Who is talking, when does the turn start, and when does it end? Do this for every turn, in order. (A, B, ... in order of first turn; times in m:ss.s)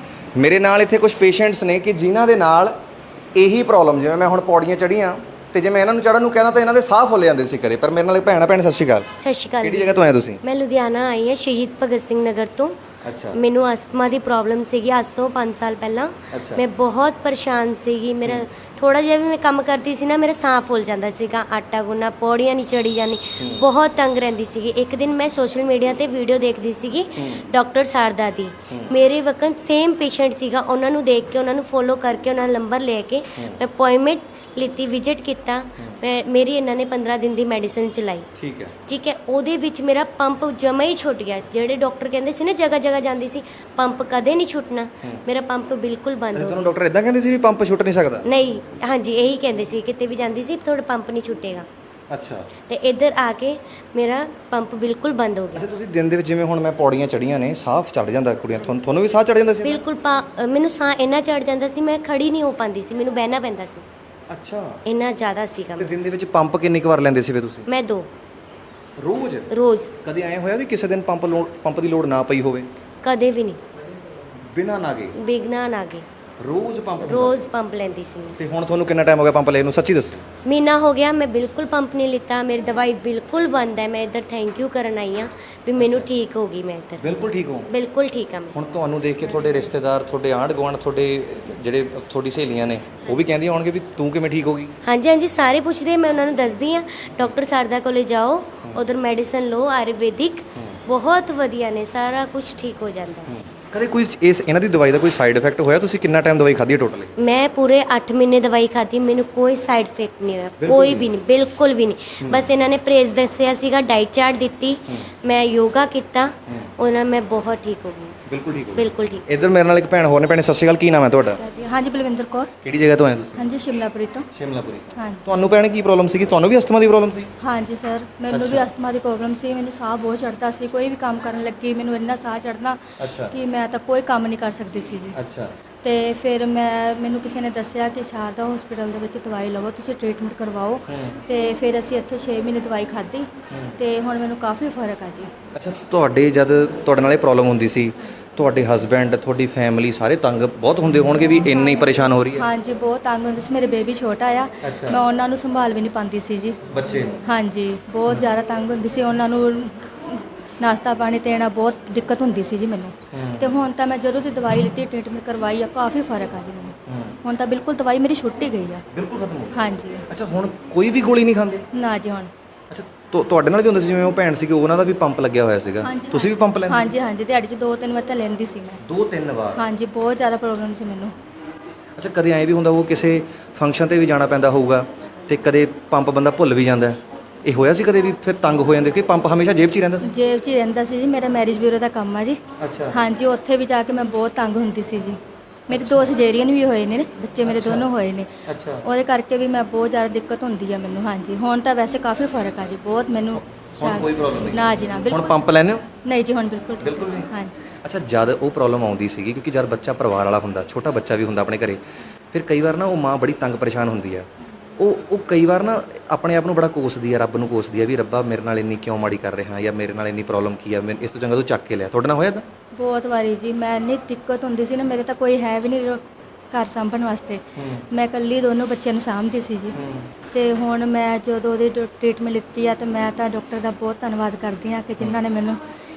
0:00.4-0:02.7 A
0:03.3-0:09.1 A
0:09.2-0:12.7 B
0:09.6-0:10.4 A
0:13.0-0:13.4 A
0:13.3-0:38.2 B
0:16.3-0:16.6 A
0:23.4-0:23.7 A
0:27.2-0:27.4 A
0:28.7-0:29.0 A
0:33.4-0:33.6 A
0:38.4-0:38.7 A
0:38.9-0:46.7 B
0:46.3-0:48.3 A
0:48.2-0:51.6 B
0:52.1-0:52.5 A
0:52.7-0:55.6 B
0:55.5-0:59.8 A
0:59.6-1:03.8 B
1:04.3-1:04.8 A
1:04.9-1:05.9 B
1:05.8-1:07.7 A
1:07.7-1:08.1 B
1:09.0-1:09.5 A
1:09.5-1:10.0 B
1:10.0-1:12.7 A
1:13.0-1:13.6 B
1:14.5-1:15.2 A
1:15.1-1:16.0 B
1:16.4-1:17.5 A
1:17.0-1:18.3 B
1:18.4-1:20.3 A
1:20.4-1:27.0 B
1:25.8-1:26.1 A
1:27.0-1:27.7 A
1:27.7-1:28.6 B
1:28.5-1:34.7 A
1:34.8-1:43.3 B
1:38.6-1:38.9 A
1:43.3-1:47.1 A
1:47.2-1:58.1 B
1:50.6-1:51.1 A
1:52.2-1:52.6 A
1:58.3-2:01.4 A
1:58.7-1:59.2 B
2:01.6-2:02.5 C
2:02.6-2:03.5 A
2:03.4-2:04.3 C
2:04.3-2:07.3 A
2:04.9-2:05.3 C
2:07.4-2:15.2 C
2:08.3-2:08.7 A
2:13.0-2:13.3 A
2:15.1-2:15.5 A
2:15.8-2:25.3 C
2:20.9-2:21.2 A
2:25.5-2:32.5 A
2:31.5-2:31.8 C
2:32.3-2:36.6 C
2:34.6-2:35.0 A
2:36.7-2:37.1 A
2:37.2-2:48.8 C
2:43.1-2:43.5 A
2:46.9-2:47.1 A
2:48.9-2:51.6 A
2:49.5-2:50.0 C
2:51.7-2:52.3 C
2:52.7-2:56.9 A
2:55.8-2:58.8 C
2:58.8-2:59.6 A
2:59.5-3:01.1 C
3:02.0-3:10.0 A
3:10.0-3:18.3 C
3:12.6-3:13.0 A
3:15.7-3:16.1 A
3:17.4-3:17.9 A
3:18.5-3:18.8 A
3:18.8-3:25.4 C
3:23.8-3:25.9 A
3:25.9-3:27.6 C
3:26.8-3:34.3 A
3:34.8-3:42.4 A
3:42.7-3:49.8 C
3:47.6-3:47.8 A
3:49.7-3:50.0 A
3:50.3-3:55.6 C